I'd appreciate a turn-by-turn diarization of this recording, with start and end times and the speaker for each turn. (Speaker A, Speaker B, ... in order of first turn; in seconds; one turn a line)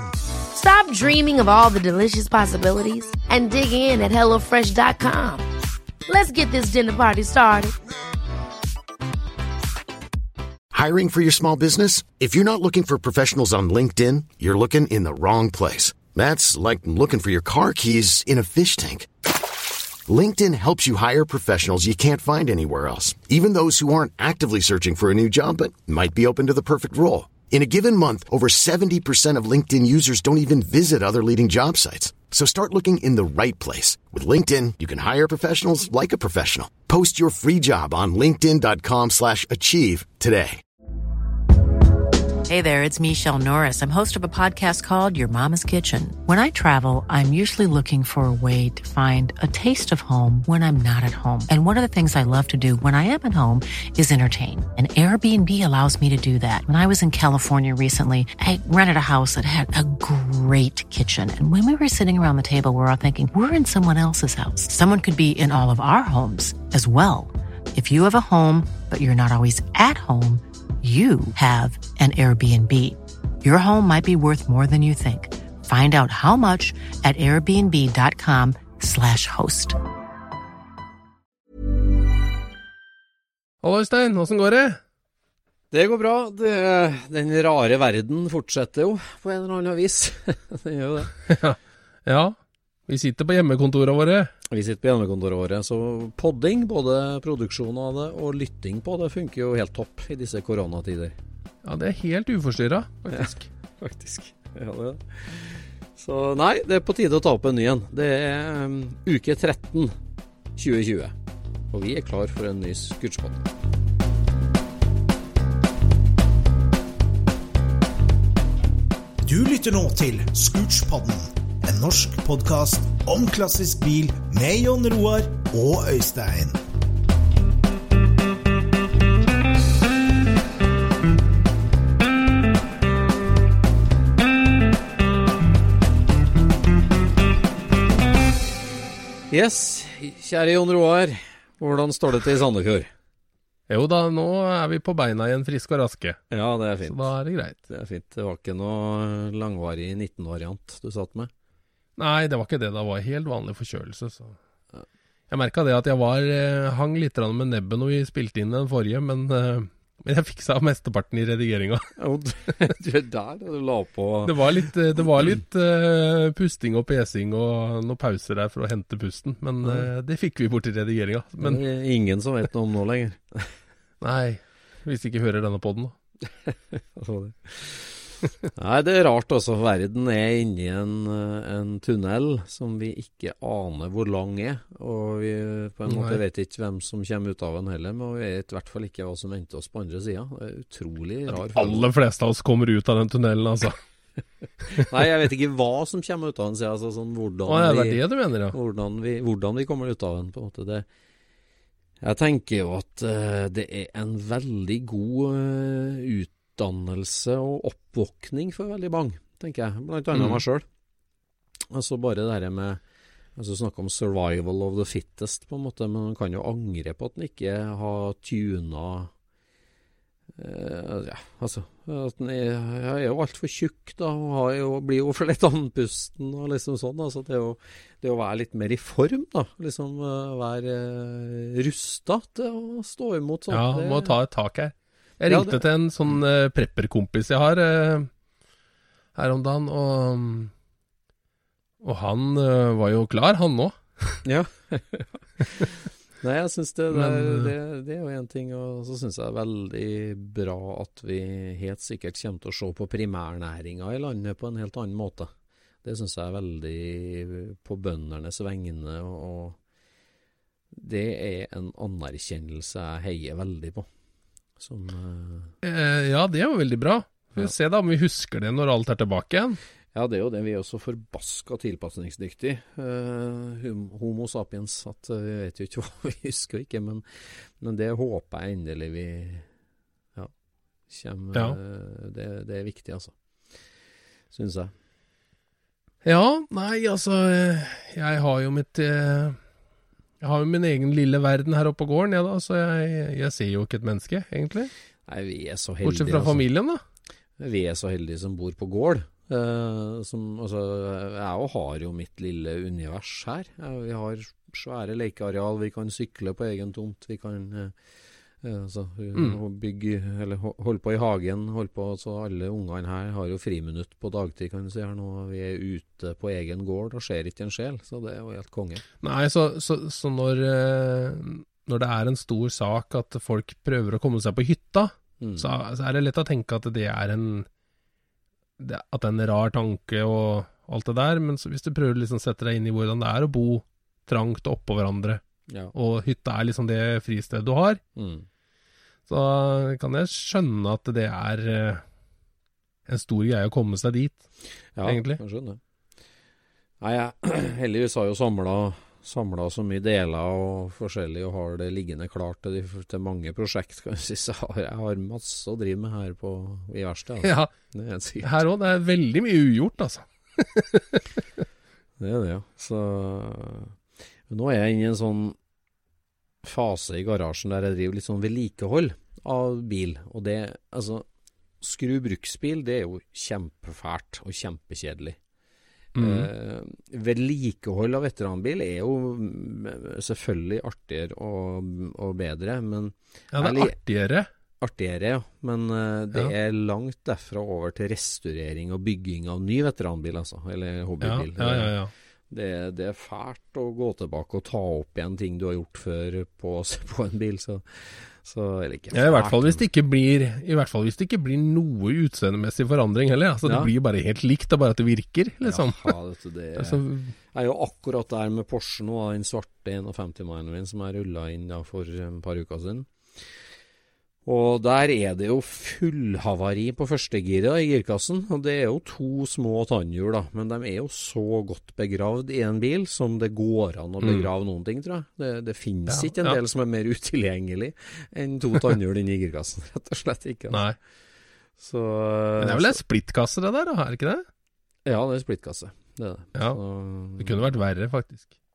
Speaker A: 0.5-5.5
Speaker A: 6.1-7.7
Speaker B: 10.7-19.1
Speaker B: 20.1-40.6
Speaker C: 42.5-79.8
Speaker D: 83.6-84.8
Speaker E: 85.7-91.2
Speaker D: 91.3-92.4
Speaker D: 92.9-94.3
Speaker E: 94.5-101.2
Speaker D: 101.6-103.5
Speaker E: 103.1-110.0
Speaker E: 110.6-111.2
Speaker E: 111.7-113.5
Speaker F: 119.3-126.6
Speaker E: 139.3-142.9
Speaker D: 143.7-146.2
Speaker E: 146.3-147.1
Speaker D: 146.8-147.6
Speaker E: 147.7-151.3
Speaker D: 152.0-154.4
Speaker D: 155.3-161.9
Speaker E: 162.0-164.6
Speaker D: 164.2-171.6
Speaker E: 169.6-169.9
Speaker E: 171.4-173.5
Speaker D: 174.0-175.9
Speaker E: 176.3-191.9
Speaker D: 185.9-186.2
Speaker D: 191.3-193.8
Speaker E: 194.7-200.9
Speaker D: 197.5-198.6
Speaker E: 202.0-210.7
Speaker D: 210.1-210.4
Speaker E: 211.7-212.8
Speaker E: 213.4-219.1
Speaker E: 220.3-234.2
Speaker D: 233.5-238.1
Speaker E: 235.3-236.2
Speaker D: 239.2-240.5
Speaker D: 241.8-244.2
Speaker E: 244.2-255.3
Speaker D: 246.9-247.5
Speaker E: 255.8-259.6
Speaker E: 260.7-263.9
Speaker E: 264.6-265.5
Speaker D: 265.6-269.6
Speaker E: 269.9-279.5
Speaker E: 280.9-283.1
Speaker E: 284.3-284.7
Speaker D: 286.0-289.4
Speaker D: 290.2-294.7
Speaker E: 295.1-296.4
Speaker D: 295.8-296.8
Speaker E: 297.4-307.8
Speaker E: 308.4-318.8
Speaker D: 319.0-327.5
Speaker E: 325.2-325.5
Speaker D: 328.6-335.2
Speaker E: 335.5-335.7
Speaker D: 335.7-337.8
Speaker E: 338.0-338.3
Speaker D: 339.1-341.8
Speaker D: 342.9-344.2
Speaker E: 344.8-345.6
Speaker D: 344.8-345.2
Speaker E: 346.8-358.4
Speaker D: 357.2-357.5
Speaker D: 358.2-361.0
Speaker E: 362.0-365.4
Speaker E: 366.4-371.1
Speaker E: 371.6-375.2
Speaker D: 375.9-376.3
Speaker E: 376.0-383.8
Speaker D: 383.3-384.3
Speaker E: 384.6-391.7
Speaker D: 391.0-391.9
Speaker E: 392.3-399.6
Speaker D: 398.9-405.9
Speaker E: 403.4-403.7
Speaker E: 405.4-413.3
Speaker D: 406.6-407.1
Speaker E: 414.2-430.6
Speaker D: 424.0-424.3
Speaker D: 425.9-426.4
Speaker D: 430.5-430.8
Speaker E: 431.6-432.8
Speaker D: 432.4-434.3
Speaker E: 434.9-437.4
Speaker D: 436.4-436.6
Speaker D: 437.2-438.3